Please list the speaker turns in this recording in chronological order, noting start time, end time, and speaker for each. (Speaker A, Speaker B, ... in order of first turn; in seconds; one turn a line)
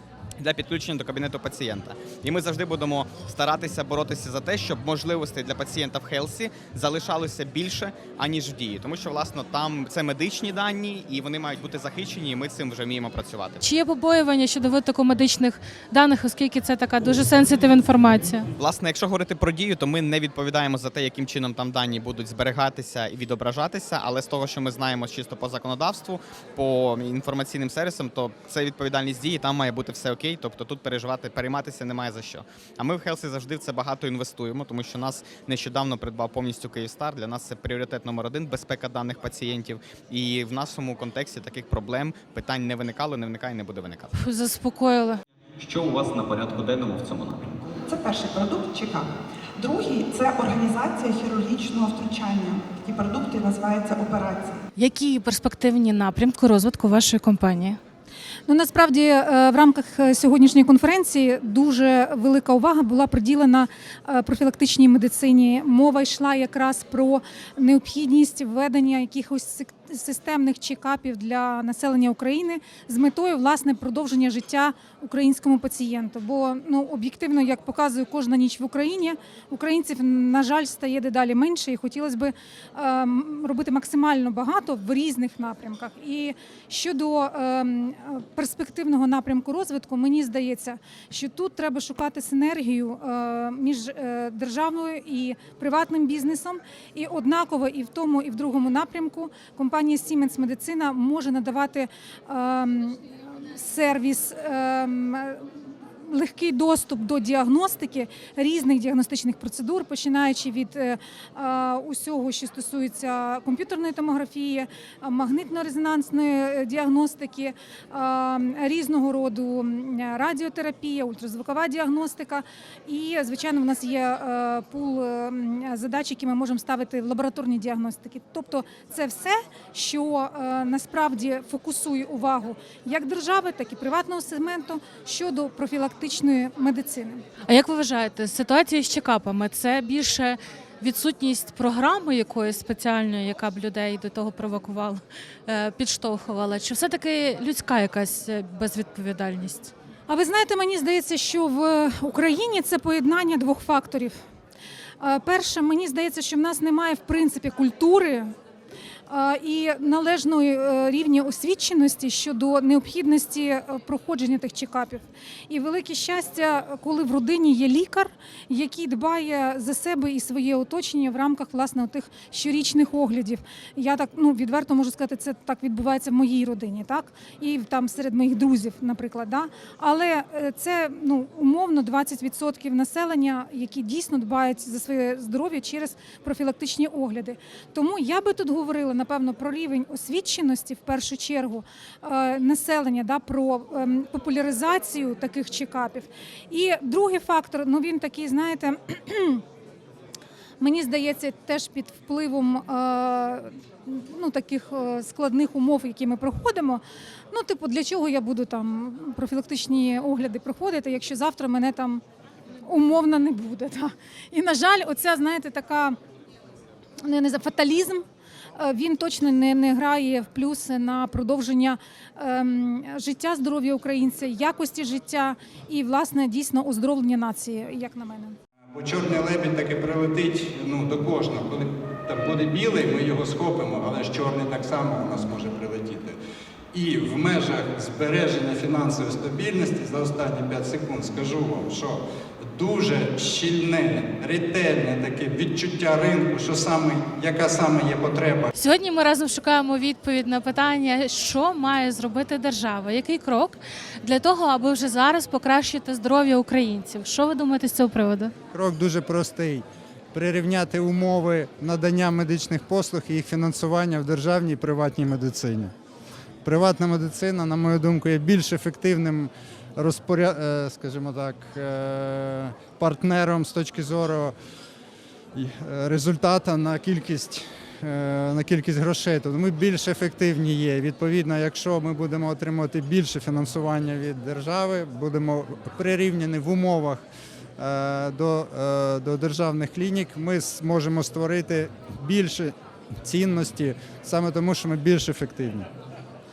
Speaker A: 0.4-13.6
Speaker B: 13.6-18.5
Speaker A: 18.6-44.1
Speaker B: 44.1-45.2
Speaker C: 45.6-47.6
Speaker D: 47.8-54.6
Speaker B: 54.8-57.8
Speaker E: 58.5-105.5
Speaker E: 106.0-137.2
Speaker B: 137.5-149.7
Speaker E: 150.1-154.2
Speaker E: 155.0-158.3
Speaker E: 159.1-199.4
Speaker E: 200.6-212.0
Speaker E: 212.7-216.0
Speaker E: 217.0-218.1
Speaker E: 218.6-228.4
Speaker F: 228.8-236.1
Speaker F: 236.8-242.0
Speaker F: 242.6-248.5
Speaker B: 248.6-258.3
Speaker F: 258.5-265.7
Speaker F: 266.4-274.3
Speaker F: 275.4-287.0
Speaker F: 287.6-295.7